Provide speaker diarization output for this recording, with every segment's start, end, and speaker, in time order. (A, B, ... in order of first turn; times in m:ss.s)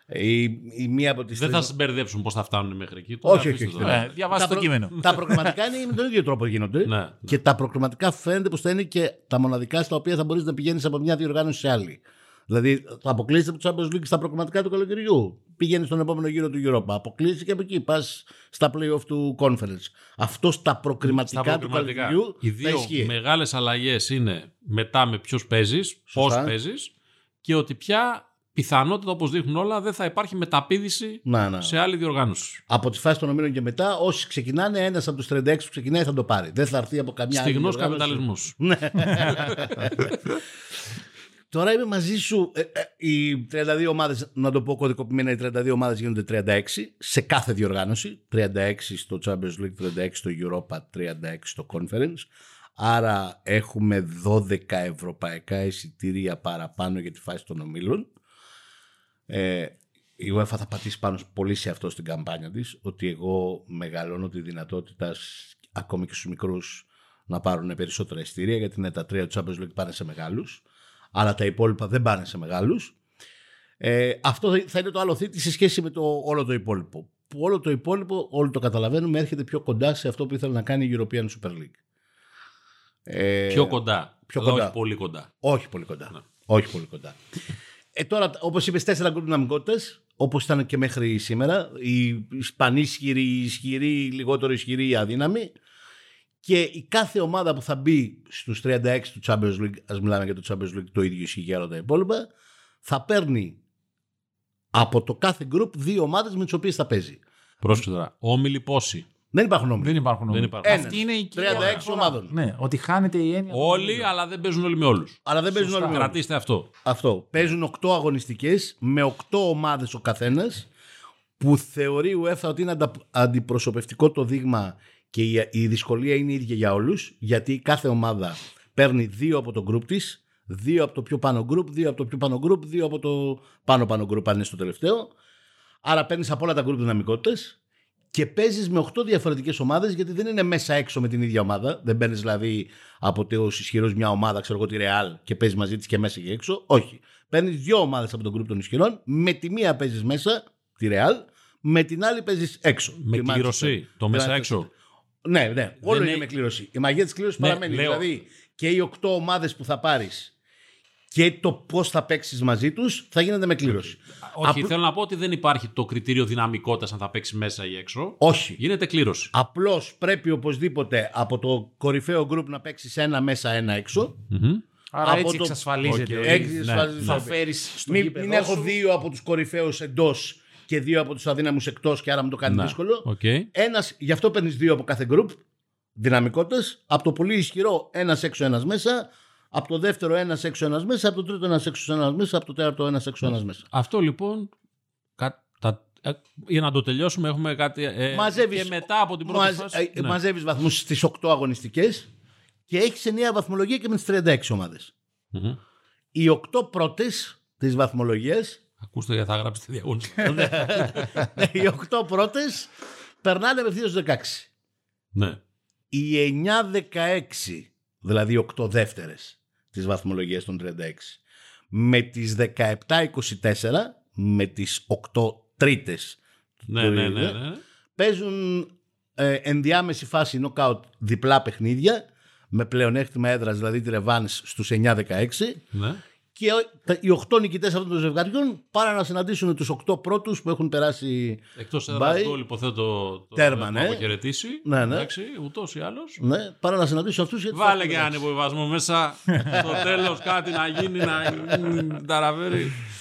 0:00.1-0:01.7 A
0:01.3-0:04.4 B
0:03.2-0:23.1 A
0:03.8-0:05.6 C
0:06.9-0:07.4 B
0:21.0-0:26.9 B
0:26.1-0:26.5 A
0:27.4-0:32.6 B
0:31.2-0:31.8 A
0:32.7-0:40.1 A
0:37.3-0:40.1 B
0:41.5-0:58.1 A
0:59.3-1:10.6 A
1:11.1-1:12.9 A
1:13.8-1:21.8 A
1:23.1-1:24.7 A
1:23.5-1:25.3 B
1:25.4-1:27.2 A
1:28.0-1:35.5 A
1:36.4-1:42.3 A
1:42.8-1:43.6 A
1:44.7-1:47.2 A
1:47.6-1:49.1 B
1:49.3-1:50.0 A
1:49.8-1:54.1 C
1:50.3-1:51.9 B
1:50.6-1:52.4 A
1:53.5-1:56.7 B
1:55.3-1:56.2 A
1:56.8-2:00.7 A
2:01.4-2:15.1 A
2:15.8-2:17.6 A
2:18.1-2:34.6 A
2:33.0-2:34.7 B
2:35.2-2:40.3 A
2:35.8-2:36.3 B
2:37.4-2:38.1 B
2:41.1-2:44.7 A
2:44.2-2:49.3 B
2:48.2-2:48.6 A
2:49.3-2:54.2 A
2:54.3-2:54.6 B
2:54.9-2:58.8 C
2:55.0-2:55.6 A
2:55.8-2:57.3 B
2:56.2-3:05.4 A
3:02.5-3:03.5 B
3:06.0-3:13.7 A
3:13.7-3:14.5 B
3:15.2-3:20.2 B
3:18.1-3:22.1 A
3:22.7-3:24.9 A
3:25.3-3:25.6 B
3:26.1-3:28.6 A
3:28.8-3:31.2 B
3:30.2-3:32.7 A
3:33.2-3:34.5 A
3:35.9-3:41.2 A
3:41.7-3:46.2 A
3:46.7-3:47.6 B
3:46.8-3:47.4 A
3:48.0-3:55.6 A
3:55.7-3:56.0 B
3:56.4-4:02.3 A
4:01.6-4:06.2 B
4:03.4-4:04.1 A
4:04.6-4:05.1 A
4:06.2-4:08.2 A
4:07.5-4:12.8 B
4:09.5-4:10.2 A
4:11.0-4:12.0 A